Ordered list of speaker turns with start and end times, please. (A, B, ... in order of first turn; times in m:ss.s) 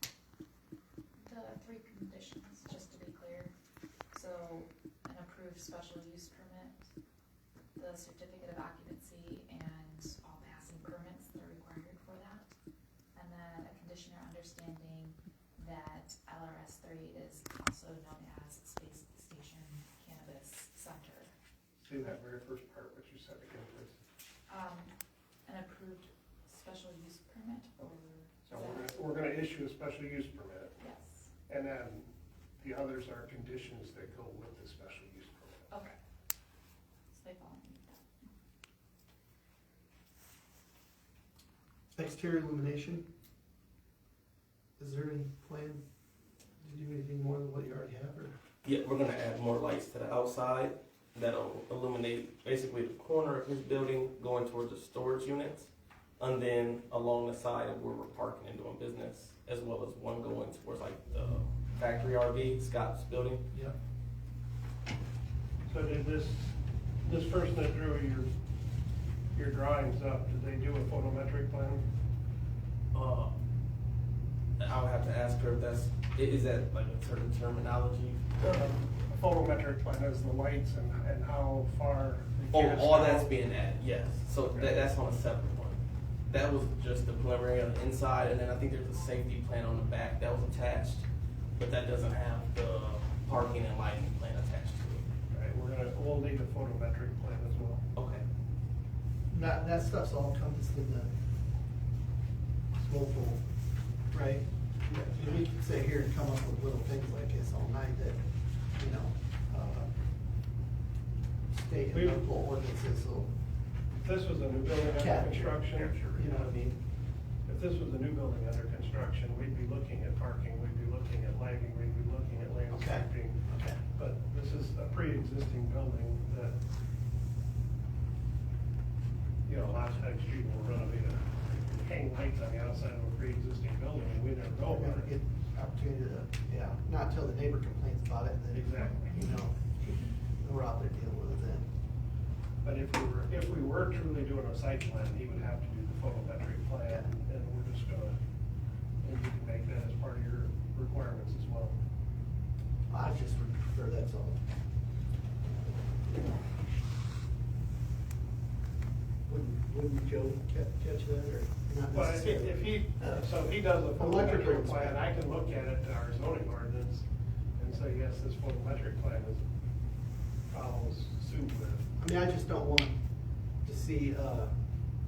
0:01.2-0:03.5 A
0:04.1-0:06.9 A
0:07.8-0:12.5 A
0:13.2-0:21.3 A
0:21.8-0:24.0 B
0:24.5-0:24.9 A
0:25.5-0:29.0 A
0:28.5-0:30.8 B
0:30.8-0:31.3 A
0:31.5-0:32.1 B
0:32.6-0:35.7 B
0:35.7-0:36.0 A
0:37.1-0:38.1 A
0:42.0-0:43.0 C
0:44.8-0:45.8 C
0:46.6-0:48.4 C
0:48.6-1:03.5 D
1:05.7-1:08.3 B
1:09.3-1:11.8 B
1:12.9-1:13.4 D
1:14.6-1:18.5 D
1:18.4-1:23.4 B
1:22.5-1:35.1 D
1:24.5-1:24.8 B
1:35.3-1:37.8 B
1:38.0-1:38.3 D
1:39.3-1:41.1 C
1:42.7-1:43.4 C
1:44.1-1:48.2 C
1:48.7-1:49.9 C
1:51.6-1:53.3 C
1:51.9-1:52.2 B
1:54.0-1:56.8 B
1:54.8-1:56.5 C
1:57.4-2:06.6 B
2:02.7-2:03.8 C
2:09.4-2:15.1 B
2:14.6-2:21.7 C
2:18.5-2:19.2 B
2:22.6-2:28.2 B
2:29.0-2:31.8 B
2:32.9-2:34.4 C
2:35.4-2:36.5 C
2:39.2-2:43.3 C
2:41.9-2:49.4 B
2:43.9-2:45.1 C
2:50.5-2:51.9 B
2:52.0-2:53.0 C
2:53.6-2:54.6 C